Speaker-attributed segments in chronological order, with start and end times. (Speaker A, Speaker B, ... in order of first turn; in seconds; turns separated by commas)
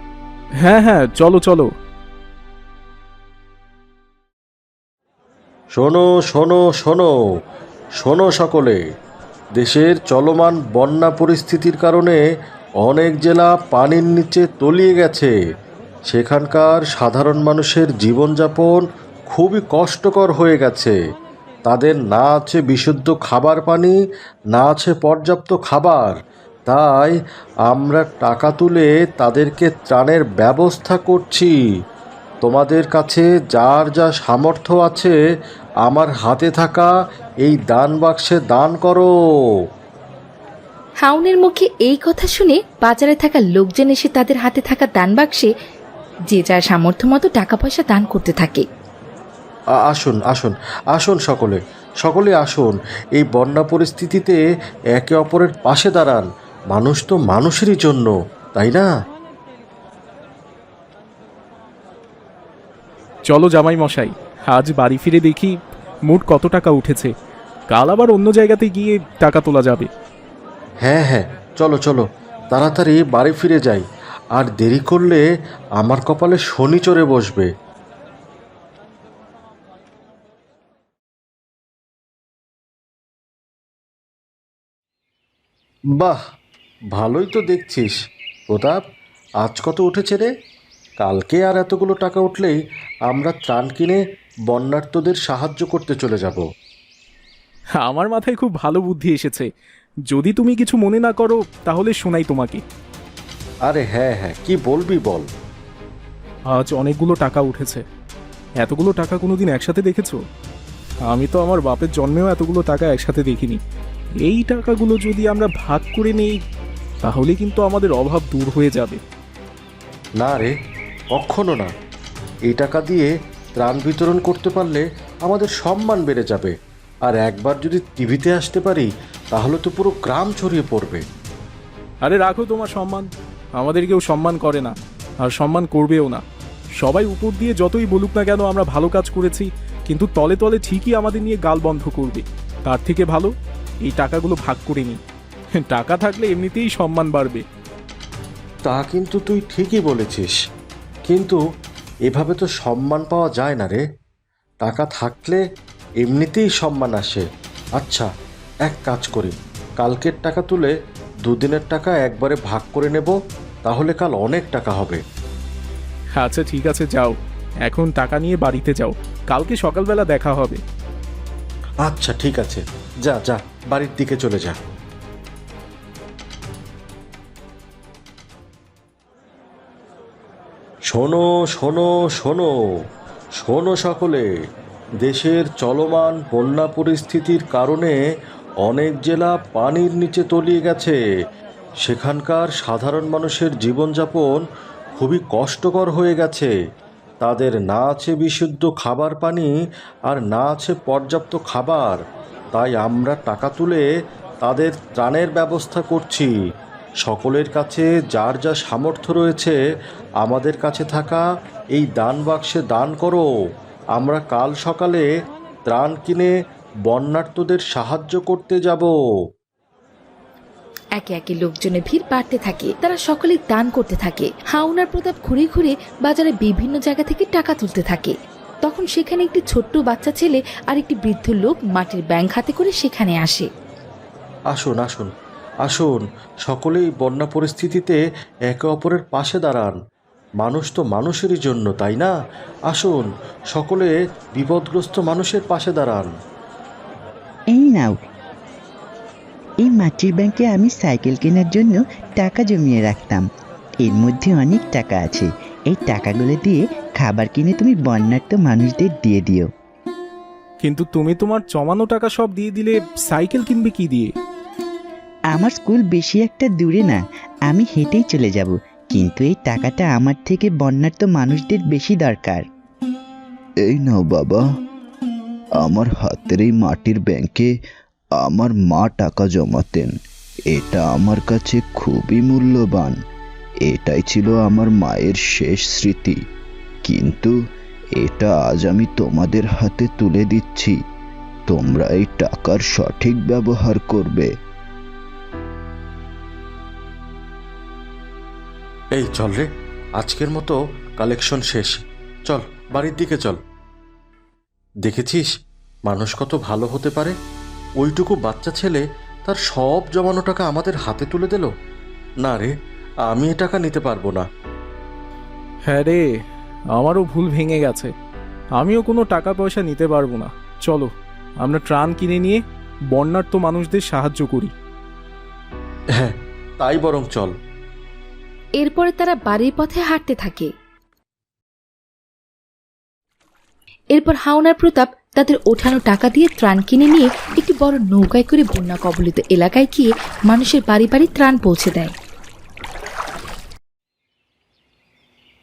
Speaker A: 0.6-1.7, Speaker B: 5.7-7.1, Speaker B: 8.0-8.8, Speaker B: 9.6-12.2, Speaker B: 12.8-15.3, Speaker B: 16.1-20.9, Speaker B: 21.6-23.9, Speaker B: 24.5-26.1, Speaker B: 26.7-27.1, Speaker B: 27.7-31.5, Speaker B: 32.4-35.1, Speaker B: 35.8-36.9, Speaker B: 37.4-39.1, Speaker C: 41.0-45.5, Speaker C: 46.3-48.6, Speaker B: 49.8-54.4, Speaker B: 54.9-58.9, Speaker A: 63.3-65.5, Speaker A: 66.1-67.1, Speaker A: 67.7-69.9, Speaker B: 70.8-73.8, Speaker B: 74.3-75.2, Speaker B: 75.8-77.5, Speaker B: 86.9-87.9, Speaker B: 88.5-88.8, Speaker B: 89.4-90.3, Speaker B: 91.0-92.6, Speaker B: 93.1-96.4, Speaker A: 97.8-99.5, Speaker A: 100.1-102.6, Speaker B: 103.7-105.3, Speaker A: 106.5-107.8, Speaker A: 108.6-110.2, Speaker A: 111.1-113.6, Speaker A: 114.2-116.4, Speaker A: 117.0-119.0, Speaker B: 120.2-120.5, Speaker B: 121.1-121.7, Speaker B: 122.5-126.5, Speaker B: 127.1-131.0, Speaker A: 132.0-136.2, Speaker A: 136.8-143.3, Speaker A: 143.9-145.0, Speaker A: 145.6-147.4, Speaker B: 148.6-150.3, Speaker B: 151.1-151.4, Speaker B: 152.1-153.8, Speaker B: 154.6-155.4, Speaker B: 156.0-157.2, Speaker B: 157.8-158.1, Speaker B: 158.7-160.7, Speaker B: 161.2-165.0, Speaker A: 166.2-170.6, Speaker B: 171.8-174.6, Speaker B: 180.9-182.5, Speaker B: 183.4-184.2, Speaker B: 185.0-188.0, Speaker B: 188.6-190.9, Speaker B: 191.8-194.4, Speaker B: 194.9-196.5, Speaker B: 197.2-199.5, Speaker B: 200.1-202.0, Speaker B: 202.5-203.8, Speaker B: 204.4-206.3, Speaker B: 207.0-209.6, Speaker B: 210.2-211.2, Speaker B: 211.7-213.2, Speaker B: 213.9-215.1, Speaker B: 215.7-216.3, Speaker B: 216.9-218.9, Speaker C: 221.0-233.5, Speaker B: 234.5-235.1, Speaker B: 235.6-238.0, Speaker B: 238.5-239.8, Speaker B: 240.4-242.1, Speaker B: 242.7-246.1, Speaker D: 247.5-248.0, Speaker D: 249.6-253.2, Speaker D: 253.8-259.5, Speaker A: 260.6-264.1, Speaker D: 265.3-272.4, Speaker E: 273.6-274.4, Speaker E: 275.6-277.5, Speaker E: 278.2-279.9, Speaker E: 280.5-282.9, Speaker E: 283.7-286.2, Speaker E: 286.9-287.3, Speaker E: 288.0-290.8, Speaker E: 291.5-294.3, Speaker B: 298.9-299.4, Speaker B: 300.0-301.7, Speaker B: 302.3-303.4, Speaker B: 304.9-305.3, Speaker B: 305.9-307.1, Speaker B: 307.8-311.5, Speaker B: 312.2-312.5, Speaker B: 313.1-314.2, Speaker A: 315.6-316.0, Speaker A: 316.8-317.9, Speaker A: 318.6-320.9, Speaker A: 321.4-322.4, Speaker A: 322.9-324.5, Speaker B: 326.0-327.3, Speaker C: 328.6-330.5, Speaker C: 333.9-341.9